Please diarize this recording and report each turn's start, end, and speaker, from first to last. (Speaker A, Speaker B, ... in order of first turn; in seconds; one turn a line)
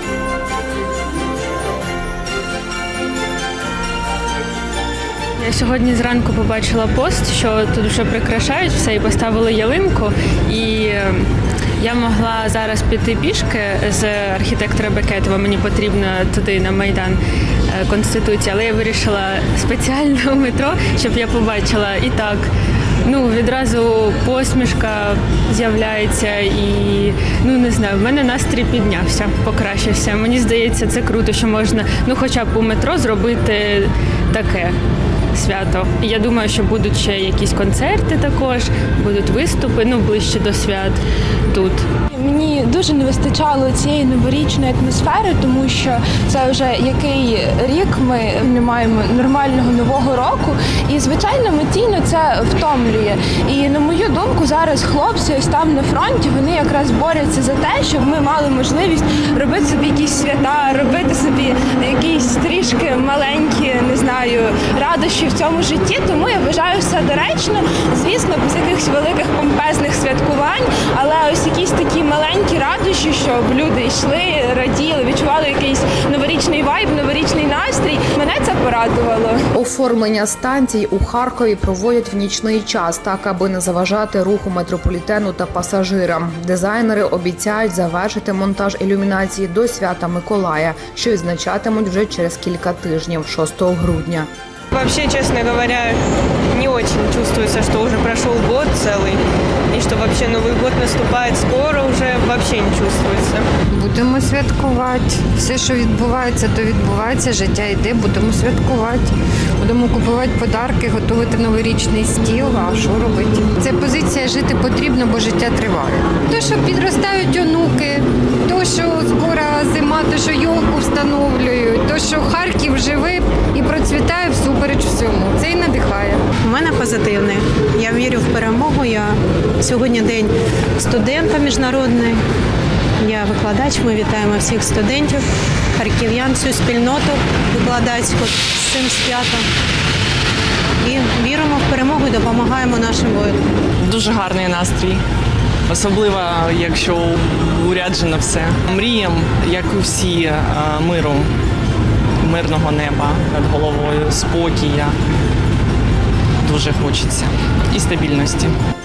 Speaker A: 5.4-11.3
Speaker A: 11.8-22.5
Speaker A: 23.1-34.8
Speaker A: 35.3-41.0
Speaker A: 41.5-41.9
Speaker B: 42.1-79.4
Speaker C: 79.5-94.3
Speaker D: 94.7-96.0
Speaker D: 96.5-103.5
Speaker E: 103.7-126.2
Speaker F: 126.4-132.2
Speaker F: 133.0-139.5
Speaker F: 140.8-143.5
Speaker G: 143.8-145.0
Speaker G: 145.7-151.3
Speaker G: 152.2-154.9
Speaker G: 156.4-158.6